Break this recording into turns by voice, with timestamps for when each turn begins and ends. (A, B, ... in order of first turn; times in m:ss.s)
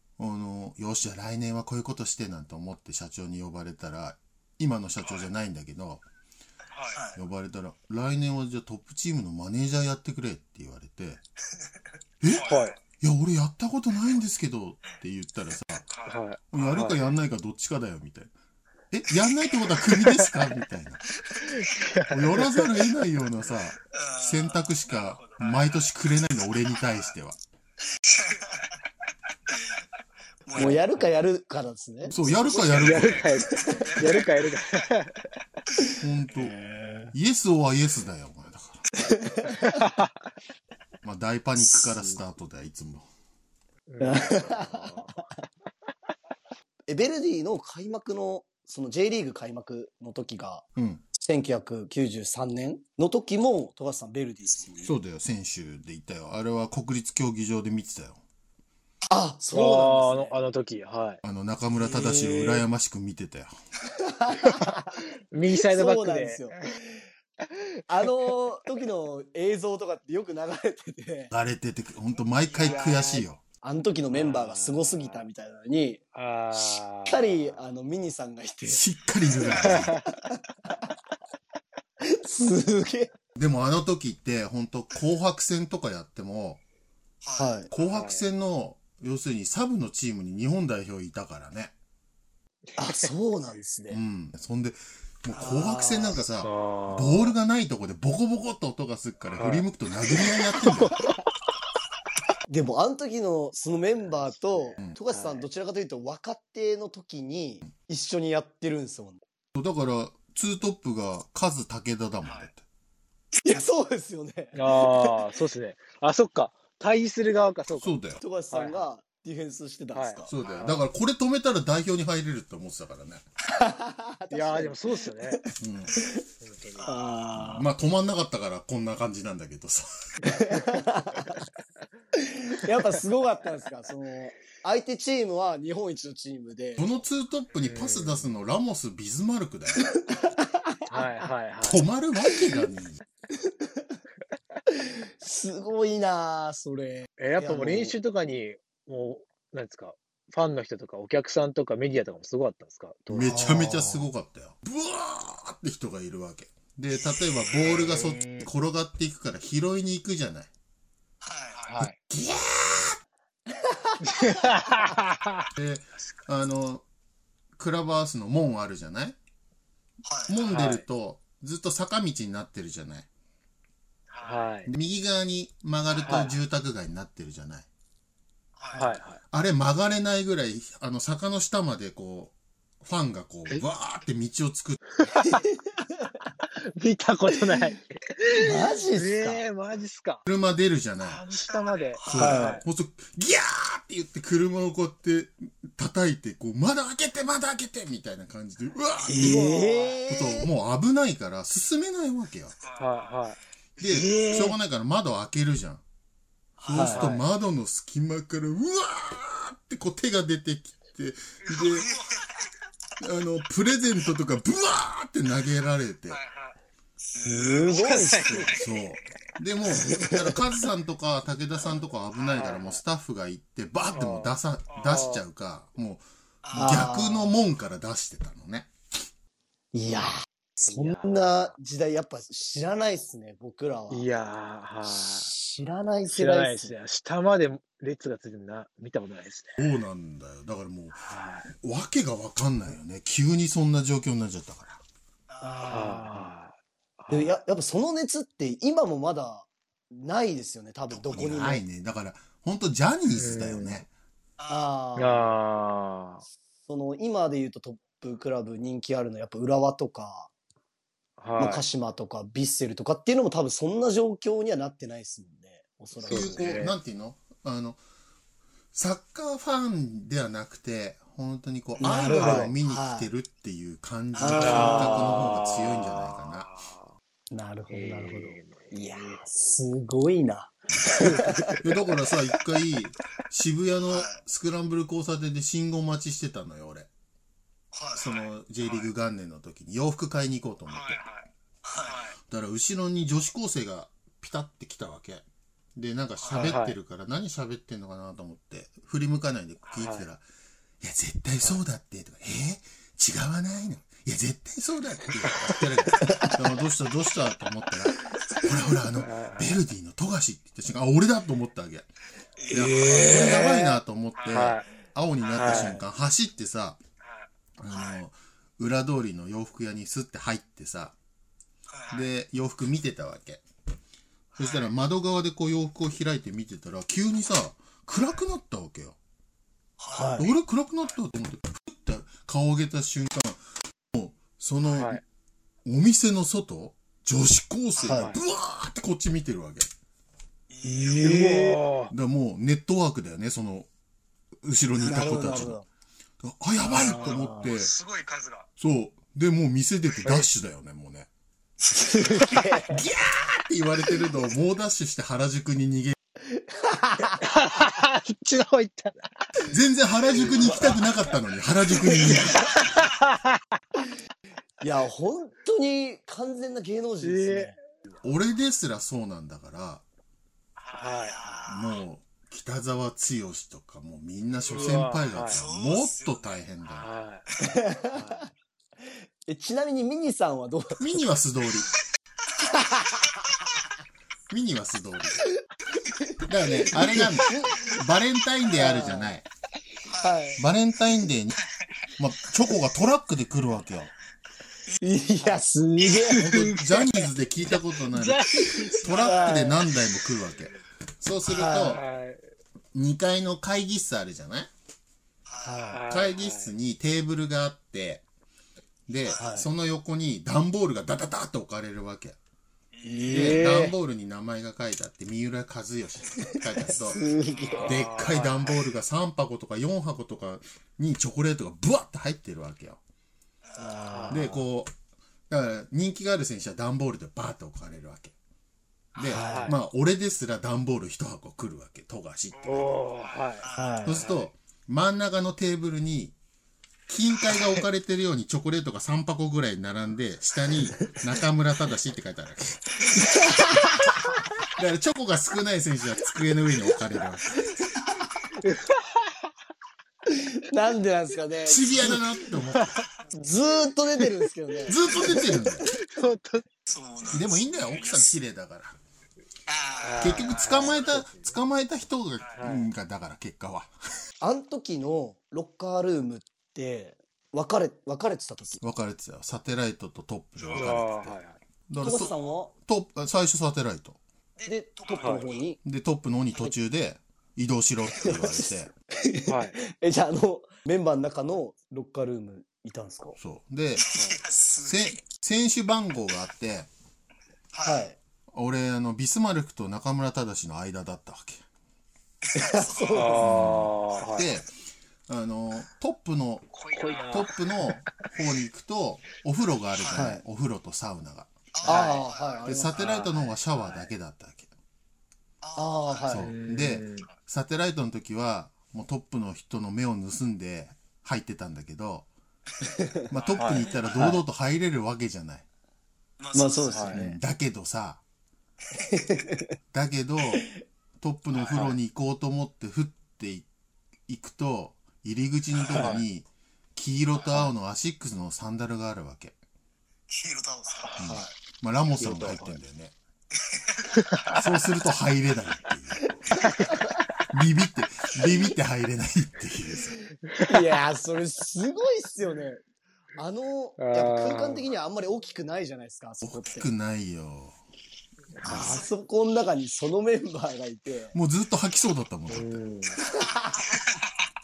0:00.2-0:06.0 A
0:06.8-0:07.2 B
0:07.1-0:11.2 A
0:12.2-0:15.9 A
0:12.3-0:12.8 B
0:12.4-0:12.8 C
0:15.9-0:16.2 B
0:16.0-0:17.0 C
0:16.5-0:18.3 A
0:18.9-0:21.0 A
0:19.2-0:19.7 B
0:20.0-0:20.3 C
0:21.2-0:21.8 B
0:21.4-0:22.8 C
0:22.1-0:27.4 A
0:23.9-0:25.8 B
0:26.7-0:27.1 B
0:28.0-0:28.8 B
0:29.5-0:29.8 B
0:30.4-0:30.8 B
0:30.5-0:33.0 D
0:30.6-0:31.1 C
0:32.1-0:33.4 A
0:32.7-0:35.2 C
0:33.0-0:34.5 B
0:36.0-0:36.5 A
0:36.4-0:37.1 D
0:37.1-0:38.8 A
0:39.0-0:39.8 D
0:39.6-0:40.1 C
0:41.0-0:43.0 A
0:43.9-0:45.1 C
0:44.0-0:45.2 D
0:46.9-0:54.9 D
0:50.8-0:51.0 A
0:54.8-0:58.2 A
0:59.1-1:00.4 D
0:59.5-1:01.2 C
1:01.2-1:03.5 A
1:01.8-1:02.6 D
1:02.0-1:02.3 C
1:03.9-1:06.6 D
1:05.3-1:06.5 C
1:07.9-1:11.3 D
1:11.3-1:13.4 A
1:12.5-1:13.1 B
1:12.6-1:16.0 D
1:14.1-1:15.2 C
1:16.1-1:17.6 C
1:16.5-1:18.8 D
1:18.7-1:20.0 A
1:19.6-1:20.0 C
1:20.3-1:20.7 D
1:22.0-1:23.1 D
1:23.4-1:26.6 A
1:27.2-1:27.5 B
1:27.4-1:27.7 D
1:27.7-1:31.7 A
1:27.8-1:28.2 C
1:32.8-1:34.0 D
1:32.8-1:33.1 C
1:33.9-1:41.0 A
1:35.3-1:36.2 D
1:36.4-1:37.3 C
1:39.4-1:41.1 C
1:42.5-1:49.2 D
1:45.1-1:45.4 C
1:49.5-1:52.6 A
1:53.4-1:55.2 D
1:54.5-1:58.0 C
1:57.8-1:58.2 A
1:58.2-2:00.3 D
1:58.5-1:58.8 C
1:59.9-2:00.8 C
2:00.2-2:03.2 A
2:00.4-2:00.7 B
2:03.5-2:05.4 D
2:04.3-2:05.4 C
2:05.6-2:06.0 A
2:06.4-2:07.0 C
2:06.8-2:07.1 B
2:06.8-2:07.7 D
2:07.3-2:10.3 A
2:10.2-2:11.4 D
2:12.2-2:16.9 D
2:16.8-2:19.9 A
2:17.6-2:18.3 C
2:20.1-2:21.0 D
2:20.9-2:21.8 C
2:21.6-2:23.0 A
2:25.2-2:28.0 D
2:27.2-2:33.5 C
2:33.1-2:40.5 A
2:33.2-2:34.0 D
2:37.5-2:37.8 B
2:37.7-2:38.5 C
2:41.2-2:41.7 B
2:41.6-2:42.0 C
2:41.8-2:43.0 A
2:43.7-2:44.4 D
2:44.0-2:45.4 C
2:45.6-2:46.8 A
2:47.6-2:49.2 A
2:50.0-2:50.5 B
2:50.3-2:53.0 A
2:50.4-2:50.8 C
2:54.1-2:54.5 B
2:54.2-2:54.7 C
2:54.6-2:57.6 A
2:55.9-2:56.3 B
2:56.0-2:56.4 C
2:58.6-2:58.9 B
2:58.7-2:59.2 C
2:59.3-3:04.9 A
3:05.0-3:05.4 C
3:06.8-3:10.2 C
3:08.3-3:09.4 D
3:10.2-3:11.2 A
3:11.0-3:12.6 C
3:11.5-3:12.4 B
3:12.0-3:19.5 A
3:12.1-3:12.6 D
3:19.0-3:20.5 D
3:19.2-3:19.6 C
3:19.2-3:19.9 B
3:20.1-3:22.5 A
3:22.6-3:23.2 B
3:22.8-3:23.4 C
3:23.8-3:24.0 B
3:23.8-3:25.8 A
3:23.9-3:24.5 C
3:26.6-3:27.1 D
3:26.6-3:31.9 A
3:26.9-3:27.2 C
3:31.5-3:32.5 B
3:33.0-3:36.2 A
3:36.1-3:38.8 B
3:37.2-3:38.5 D
3:38.1-3:38.5 C
3:38.5-3:48.7 A
3:39.8-3:40.3 D
3:42.2-3:42.8 C
3:43.9-3:45.2 C
3:46.4-3:47.0 B
3:46.5-3:47.4 D
3:49.7-3:54.1 D
3:50.7-3:51.2 C
3:53.9-3:55.3 C
3:54.8-3:56.7 D
3:56.1-3:59.6 C
3:59.6-4:01.0 A
4:00.9-4:01.5 C
4:01.6-4:04.8 A
4:05.3-4:06.0 B
4:05.4-4:06.3 D
4:05.7-4:07.4 C
4:07.1-4:11.6 D
4:11.0-4:13.9 A
4:13.1-4:13.8 C
4:14.4-4:14.7 B
4:14.5-4:15.4 D
4:15.0-4:16.2 C
4:16.7-4:20.3 D
4:21.2-4:21.6 C
4:21.4-4:26.6 D
4:26.0-4:26.7 C
4:26.1-4:27.8 A
4:28.7-4:36.5 A
4:31.8-4:33.1 D
4:32.1-4:32.5 C
4:34.2-4:35.2 D
4:34.2-4:34.7 B
4:34.2-4:36.9 C
4:37.3-4:41.6 D
4:37.7-4:39.2 C
4:41.0-4:41.6 C
4:41.6-4:46.9 A
4:43.8-4:44.2 B
4:47.7-4:48.9 B
4:47.9-4:51.0 A
4:50.7-4:51.0 B
4:51.6-4:52.2 B
4:52.3-4:55.2 A
4:55.8-5:00.2 A
4:56.2-4:56.6 B
4:56.3-4:56.8 C
4:59.8-5:00.1 C
5:00.8-5:11.9 A
5:05.4-5:05.6 C
5:06.0-5:06.3 D
5:08.2-5:08.5 B
5:08.9-5:09.6 C
5:12.4-5:13.4 B
5:12.5-5:16.8 A
5:12.6-5:13.7 C
5:14.2-5:14.5 B
5:14.2-5:14.7 C
5:15.2-5:15.8 B
5:15.3-5:15.8 C
5:17.0-5:18.0 B
5:17.6-5:20.9 A
5:21.7-5:22.1 B
5:21.9-5:23.4 A
5:24.4-5:24.7 B
5:24.4-5:29.0 A
5:29.8-5:30.3 B
5:29.9-5:30.3 D
5:30.2-5:33.4 A
5:33.9-5:35.0 A
5:34.7-5:35.0 C
5:35.6-5:39.7 A
5:37.9-5:38.1 D
5:37.9-5:38.2 C
5:40.5-5:41.4 B
5:40.6-5:41.6 D
5:41.0-5:41.9 C
5:41.9-5:43.7 A
5:44.4-5:45.6 A
5:44.8-5:45.6 D
5:46.2-5:47.7 A
5:46.7-5:47.5 D
5:46.7-5:47.7 C
5:46.9-5:48.4 B
5:48.6-5:51.1 A
5:50.0-5:50.3 C
5:51.7-5:52.8 D
5:51.8-5:52.5 B
5:52.7-5:56.0 A
5:56.3-5:57.3 D
5:57.2-5:59.0 C
5:59.5-6:02.6 A
6:02.7-6:03.4 C
6:04.6-6:07.6 D
6:07.0-6:07.6 C
6:08.0-6:09.8 A
6:10.6-6:11.4 C
6:10.7-6:11.8 B
6:11.5-6:16.9 A
6:14.4-6:16.4 B
6:14.5-6:15.4 C
6:16.6-6:17.3 C
6:17.4-6:18.2 D
6:17.8-6:18.3 C
6:19.3-6:21.0 D
6:20.8-6:21.7 A
6:22.4-6:23.3 B
6:22.5-6:23.0 D
6:24.3-6:25.2 A
6:26.2-6:29.2 A
6:26.7-6:27.8 D
6:26.7-6:27.0 B
6:28.5-6:29.1 D
6:29.8-6:30.2 B
6:29.9-6:30.4 D
6:30.4-6:31.4 A
6:32.0-6:33.9 A
6:34.8-6:36.2 D
6:35.9-6:39.4 C
6:36.1-6:41.8 A
6:38.8-6:39.5 B
6:39.0-6:39.6 D
6:41.3-6:41.8 D
6:41.4-6:42.2 C
6:42.7-6:44.5 A
6:45.2-6:45.8 B
6:45.4-6:45.8 D
6:45.7-6:46.5 C
6:45.9-6:48.0 A
6:48.9-6:52.2 A
6:49.0-6:49.3 B
6:49.2-6:49.5 D
6:52.7-6:53.4 B
6:52.8-6:53.7 D
6:53.1-6:57.0 A
6:53.1-6:53.7 C
6:56.3-6:57.8 D
6:56.7-6:57.8 B
6:57.5-6:58.6 C
6:57.6-7:02.8 A
7:03.4-7:03.9 B
7:03.6-7:04.4 D
7:03.9-7:04.4 C
7:04.1-7:04.7 A
7:05.3-7:08.1 A
7:08.9-7:09.2 B
7:08.9-7:12.8 A
7:09.1-7:09.5 D
7:09.1-7:09.6 C
7:12.4-7:14.2 C
7:12.5-7:14.1 B
7:13.5-7:14.0 D
7:13.8-7:16.1 A
7:16.9-7:22.8 A
7:22.8-7:23.1 B
7:23.0-7:24.0 D
7:24.5-7:27.5 A
7:28.4-7:29.1 C
7:30.1-7:32.0 D
7:31.4-7:32.8 A
7:32.4-7:32.8 C
7:33.1-7:35.3 D
7:34.7-7:35.7 A
7:35.6-7:36.4 C
7:36.7-7:38.1 B
7:37.1-7:38.8 A
7:39.5-7:40.9 B
7:39.8-7:41.3 C
7:40.0-7:43.7 A
7:42.2-7:42.4 B
7:42.4-7:42.7 C
7:44.2-7:48.6 D
7:48.6-7:54.0 A
7:50.4-7:50.8 B
7:50.5-7:51.4 C
7:51.8-7:52.5 D
7:54.4-7:55.4 B
7:54.5-7:55.6 D
7:55.0-7:55.2 C
7:55.6-7:58.7 A
7:58.0-8:03.2 D
7:59.3-7:59.6 C
8:03.2-8:03.9 A
8:03.8-8:05.0 B
8:03.9-8:04.2 C
8:04.6-8:06.7 A
8:07.5-8:07.9 B
8:07.6-8:08.0 D
8:08.3-8:11.4 A
8:12.2-8:13.3 B
8:12.3-8:13.2 D
8:12.9-8:14.3 C
8:13.2-8:14.5 A
8:13.9-8:14.4 B
8:15.1-8:16.4 A
8:16.5-8:17.4 B
8:16.7-8:18.0 C
8:17.1-8:21.3 A
8:19.8-8:20.0 B
8:19.9-8:20.2 D
8:21.5-8:23.8 B
8:21.6-8:22.8 D
8:21.6-8:22.0 C
8:22.4-8:24.5 A
8:22.7-8:23.2 C
8:25.4-8:26.3 B
8:25.6-8:26.3 D
8:26.1-8:32.1 A
8:26.1-8:27.1 C
8:32.7-8:33.1 D
8:33.1-8:35.4 A
8:33.2-8:34.0 B
8:33.4-8:34.2 C
8:36.2-8:37.0 B
8:36.3-8:37.1 D
8:36.7-8:37.0 C
8:36.9-8:38.0 A
8:38.8-8:39.5 D
8:39.7-8:43.4 A
8:41.4-8:41.8 C
8:44.1-8:49.3 A
8:45.5-8:46.0 B
8:45.7-8:46.0 C
8:47.1-8:47.5 B
8:50.1-8:51.2 B
8:50.8-8:51.3 C
8:51.0-8:52.9 A
8:52.0-8:52.6 C
8:53.3-8:54.4 B
8:54.0-8:54.4 C
8:54.3-8:56.4 A
8:56.4-8:56.8 C
8:57.3-9:00.0 A
9:00.3-9:00.5 C
9:00.4-9:02.6 D
9:03.2-9:06.7 D
9:03.8-9:04.7 C
9:06.2-9:07.6 A
9:08.4-9:08.8 C
9:08.4-9:11.1 D
9:08.4-9:08.8 A
9:11.1-9:12.6 A
9:12.3-9:13.0 C
9:13.2-9:13.6 D
9:13.5-9:14.0 B